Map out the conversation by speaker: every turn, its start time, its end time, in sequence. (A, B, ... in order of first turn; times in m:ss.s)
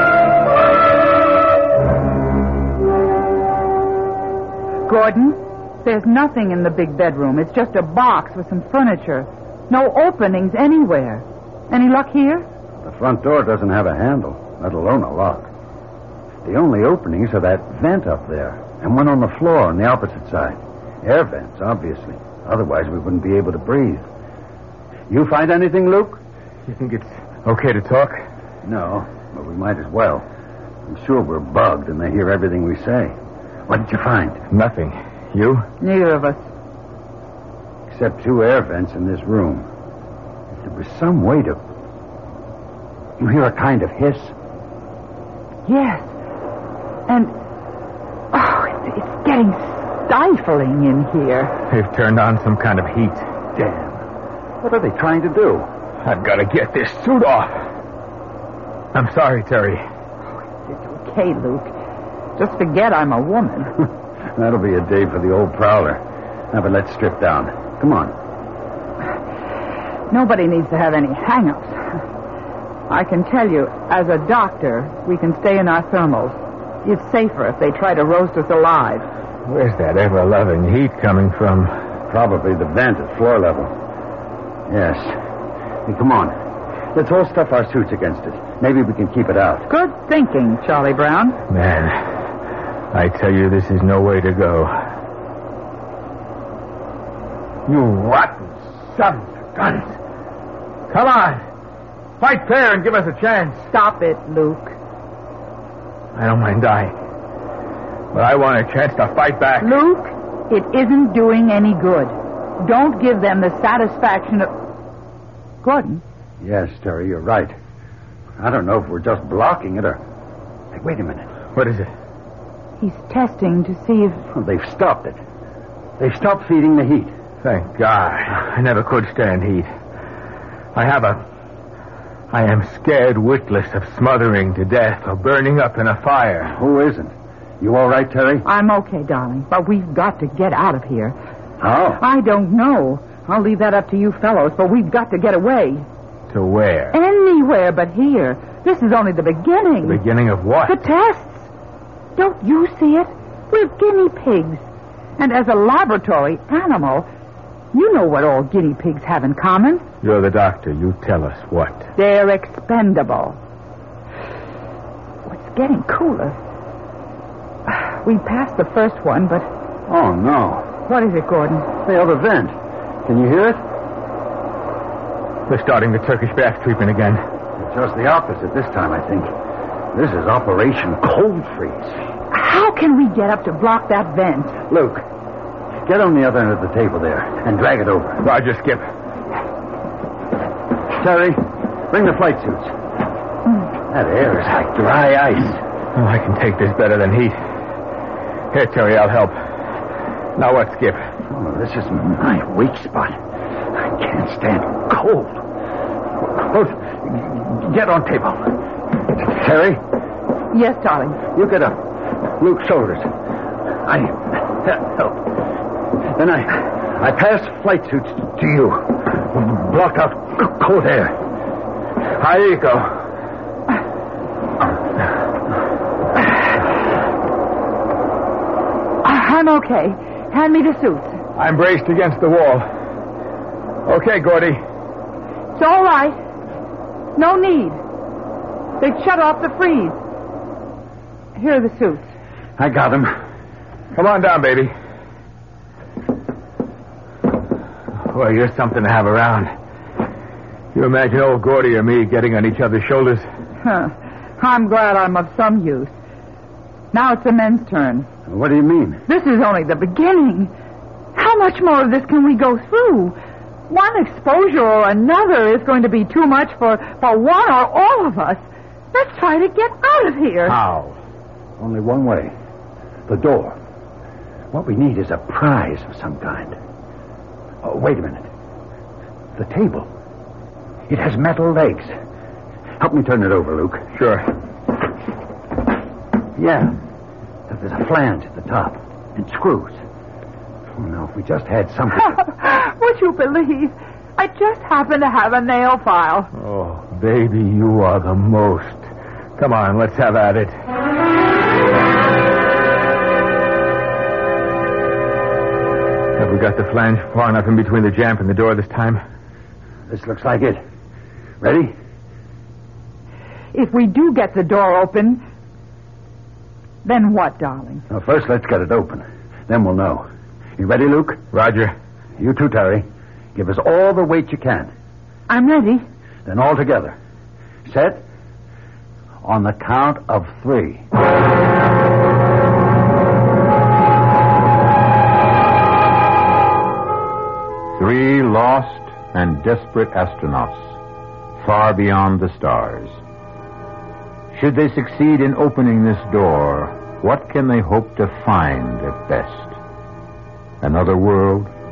0:04.9-0:12.4 A
0:12.8-0:15.5 B
0:16.4-0:24.0 B
0:25.1-0:26.2 B
0:26.7-0:28.2 C
0:28.6-0:30.2 B
0:30.9-0:33.2 B
0:33.7-0:34.4 B
0:34.5-0:35.7 C
0:35.8-0:36.5 A
0:37.9-0:39.7 B
0:40.6-0:41.6 B
0:43.2-0:44.3 B
0:45.7-0:46.1 A
0:47.1-0:47.3 A
0:48.3-0:51.5 A
0:51.7-0:53.3 C
0:53.6-0:54.0 B
0:54.6-0:55.7 B
0:56.0-0:57.6 C
0:58.9-0:59.8 C
1:00.4-1:01.7 A
1:02.4-1:03.7 A
1:04.4-1:06.0 B
1:06.5-1:08.1 B
1:10.1-1:11.8 A
1:12.9-1:19.1 A
1:19.4-1:21.8 C
1:22.1-1:23.7 B
1:24.7-1:25.2 B
1:25.9-1:26.4 B
1:26.9-1:29.7 B
1:29.7-1:31.4 A
1:31.5-1:32.1 C
1:32.9-1:34.8 C
1:37.7-1:40.0 C
1:40.9-1:41.4 C
1:42.2-1:43.7 C
1:43.7-1:44.8 A
1:46.2-1:46.9 C
1:48.1-1:49.7 C
1:49.6-1:54.5 A
1:55.6-1:56.0 A
1:56.4-1:57.6 B
1:58.4-2:00.0 B
2:00.7-2:01.3 B
2:01.6-2:01.9 C
2:02.8-2:04.2 A
2:04.3-2:05.2 B
2:06.0-2:07.1 B
2:07.4-2:09.7 C
2:10.8-2:11.2 C
2:12.3-2:16.5 C
2:16.5-2:18.4 B
2:18.4-2:21.2 A
2:21.6-2:22.0 B
2:22.0-2:25.9 A
2:26.3-2:27.0 C
2:26.9-2:30.0 A
2:29.8-2:30.8 C
2:30.6-2:31.5 A
2:32.2-2:34.6 A
2:35.2-2:37.1 A
2:37.7-2:39.9 A
2:40.0-2:41.9 C
2:42.0-2:43.4 A
2:45.3-2:46.4 A
2:47.7-2:49.5 A
2:49.9-2:50.7 B
2:50.9-2:51.7 A
2:51.8-2:52.5 B
2:53.1-2:53.6 B
2:55.5-2:57.2 C
2:57.6-2:59.3 B
2:59.9-3:02.0 B
3:02.3-3:04.6 A
3:04.7-3:05.0 B
3:05.8-3:08.2 B
3:08.2-3:08.9 C
3:10.9-3:12.7 B
3:13.9-3:15.6 B
3:16.0-3:17.4 C
3:18.5-3:19.4 C
3:20.4-3:21.1 C
3:21.3-3:23.2 B
3:23.7-3:25.4 B
3:26.2-3:29.8 B
3:30.5-3:31.2 A
3:31.3-3:33.1 B
3:33.8-3:35.4 B
3:36.2-3:41.2 B
3:42.2-3:43.0 C
3:49.0-3:51.2 A
3:51.4-3:52.7 C
3:53.9-3:54.6 C
3:55.6-3:56.2 A
3:57.2-3:57.8 A
3:58.8-4:00.0 A
4:01.4-4:02.1 A
4:02.6-4:03.2 B
4:03.9-4:04.7 C
4:08.1-4:09.5 C
4:10.7-4:13.3 C
4:13.6-4:15.9 A
4:16.9-4:18.1 A
4:18.3-4:19.0 B
4:19.1-4:20.5 A
4:21.2-4:23.2 A
4:23.7-4:30.6 A
4:30.5-4:31.0 C
4:31.6-4:32.3 B
4:33.1-4:33.6 B
4:34.5-4:36.6 B
4:37.6-4:38.3 B
4:39.4-4:39.9 B
4:40.9-4:41.9 B
4:42.8-4:43.9 B
4:44.0-4:44.3 C
4:46.4-4:46.8 B
4:47.5-4:49.8 B
4:50.8-4:52.1 B
4:52.0-4:56.3 A
4:56.4-5:00.6 C
5:06.2-5:09.0 C
5:09.9-5:10.6 B
5:11.4-5:11.7 B
5:13.5-5:15.2 A
5:16.8-5:17.8 A
5:17.9-5:20.1 B
5:20.6-5:21.2 B
5:21.3-5:21.7 C
5:22.2-5:24.7 B
5:25.3-5:25.8 A
5:26.3-5:27.0 B
5:27.7-5:28.0 B
5:29.2-5:30.8 B
5:37.8-5:40.8 D
5:41.4-5:43.0 D
5:44.3-5:49.6 D
5:50.6-5:51.5 D